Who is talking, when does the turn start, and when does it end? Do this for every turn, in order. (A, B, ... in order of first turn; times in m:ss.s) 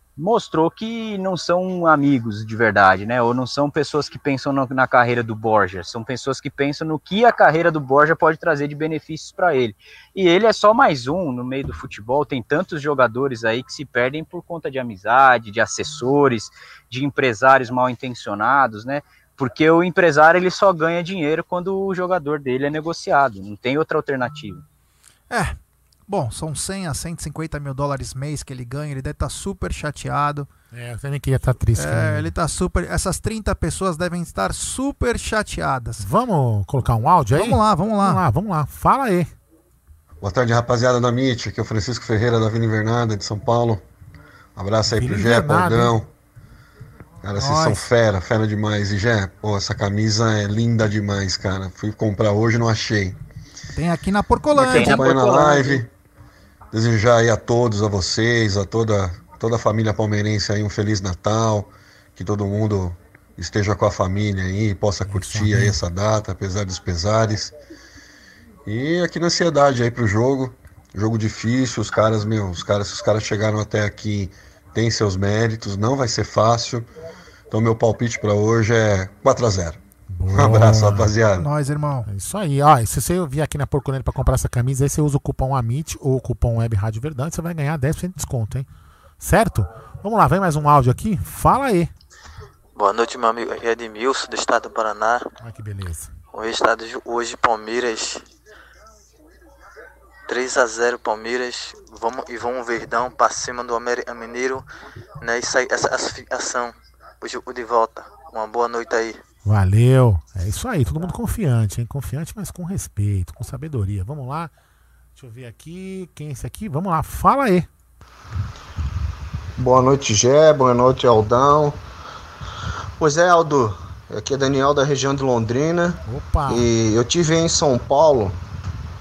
0:00.2-0:24.6 A
0:25.3-0:25.6 B
0:26.1-0:30.5 B
0:30.7-0:32.3 C
0:31.8-0:36.1 B
0:36.0-0:39.3 C
0:37.3-0:38.2 B
0:40.2-0:43.8 D
0:44.6-0:46.1 D
0:44.9-0:46.0 C
0:47.2-0:53.2 D
0:47.4-0:47.8 B
0:53.7-0:55.0 B
0:54.6-0:55.9 D
0:54.6-0:55.8 A
0:56.7-1:07.5 D
1:05.0-1:05.8 C
1:08.7-1:16.9 D
1:17.5-1:19.8 D
1:20.1-1:21.1 C
1:20.3-1:21.5 D
1:21.4-1:22.1 B
1:22.1-1:28.7 C
1:29.2-1:31.9 C
1:32.8-1:35.2 E
1:35.4-1:36.1 C
1:36.3-1:38.2 E
1:40.3-1:44.6 E
1:45.2-1:49.2 E
1:49.4-1:54.5 C
1:55.2-1:57.7 C
1:59.6-2:01.8 F
2:03.0-2:08.4 F
2:06.1-2:06.7 C